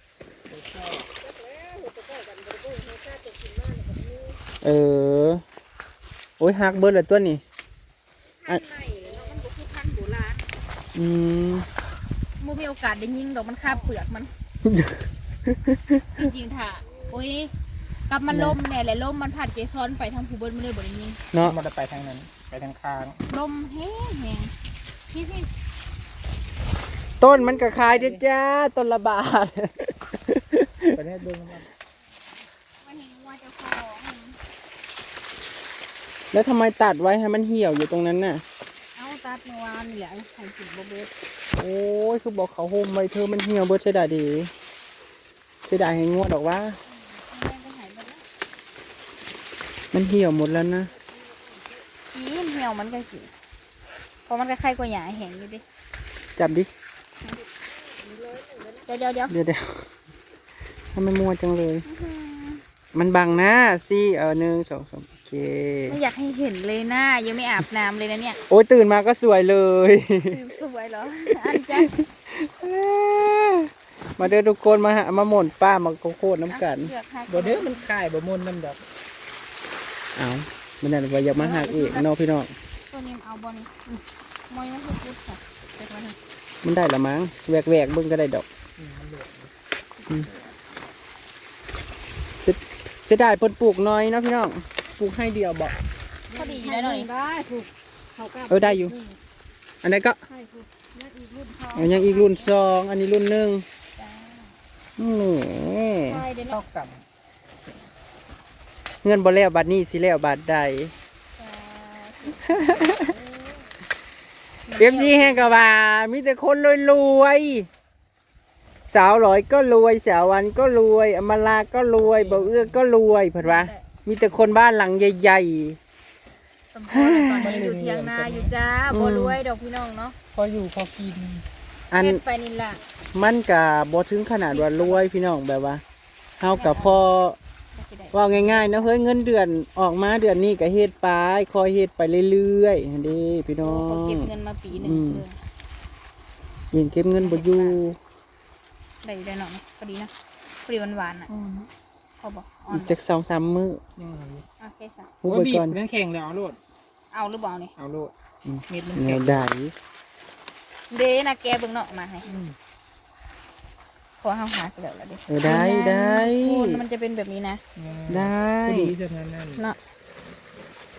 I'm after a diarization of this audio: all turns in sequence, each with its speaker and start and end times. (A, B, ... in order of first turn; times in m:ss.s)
0:00.5-0:01.1 A
0:01.2-0:04.4 B
0:04.6-0:05.4 C
0:06.4-0:07.4 C
0:08.4-0:10.5 D
0:08.8-0:09.4 B
0:10.9-0:11.7 C
0:12.4-0:14.3 D
0:13.6-0:13.9 B
0:14.6-0:16.3 C
0:16.2-0:17.5 D
0:18.1-0:21.2 D
0:18.3-0:18.6 C
0:21.4-0:23.2 A
0:23.3-0:24.5 D
0:25.1-0:25.5 D
0:27.2-0:31.0 C
0:27.6-0:28.2 A
0:30.9-0:31.7 A
0:32.8-0:34.4 D
0:36.3-0:38.4 C
0:38.9-0:41.1 D
0:41.6-0:44.5 C
0:45.6-0:46.8 C
0:46.9-0:48.2 D
0:49.9-0:50.9 C
0:50.9-0:51.8 B
0:52.1-0:53.3 D
0:54.3-0:55.6 D
0:56.4-0:56.7 C
0:57.3-0:58.9 B
0:58.8-0:59.3 D
0:59.3-0:59.8 C
1:00.9-1:01.8 C
1:01.8-1:02.6 D
1:02.9-1:06.0 C
1:05.9-1:08.4 D
1:08.5-1:10.4 C
1:10.2-1:11.9 D
1:11.2-1:16.9 C
1:16.5-1:17.8 D
1:17.3-1:18.8 A
1:20.1-1:22.5 C
1:21.4-1:22.0 D
1:22.9-1:26.2 D
1:26.6-1:28.4 C
1:28.8-1:29.5 A
1:32.4-1:35.8 C
1:36.3-1:39.2 B
1:36.3-1:37.1 D
1:38.5-1:38.9 C
1:39.8-1:40.2 C
1:40.2-1:42.4 B
1:41.7-1:43.6 C
1:41.8-1:42.4 D
1:44.0-1:44.6 D
1:45.0-1:46.2 C
1:46.0-1:46.6 D
1:46.4-1:47.0 A
1:49.0-1:50.9 C
1:51.4-1:53.6 D
1:52.4-1:53.1 C
1:54.7-1:55.4 D
1:54.8-1:57.7 C
1:58.9-2:05.8 C
2:02.0-2:02.8 A
2:03.4-2:03.8 D
2:06.7-2:10.2 D
2:06.9-2:07.6 C
2:07.4-2:08.5 A
2:08.9-2:09.4 C
2:10.3-2:11.4 A
2:11.9-2:12.2 C
2:11.9-2:12.8 D
2:13.1-2:15.8 C
2:14.5-2:15.0 D
2:16.4-2:17.4 C
2:16.5-2:17.0 D
2:17.7-2:18.9 D
2:18.1-2:25.2 C
2:23.6-2:25.4 D
2:26.7-2:28.0 C
2:27.2-2:27.8 D
2:29.0-2:30.1 D
2:30.6-2:31.3 D
2:31.3-2:31.7 A
2:32.2-2:32.9 D
2:32.7-2:33.8 C
2:34.0-2:34.4 A
2:34.6-2:35.1 D
2:35.2-2:35.8 C
2:35.2-2:36.6 A
2:37.1-2:37.7 D
2:37.8-2:38.1 A
2:38.4-2:39.7 C
2:38.7-2:39.5 A
2:40.9-2:42.3 D
2:42.3-2:42.5 A
2:44.2-2:47.6 D
2:45.3-2:46.8 C
2:47.8-2:49.6 A
2:48.1-2:48.9 C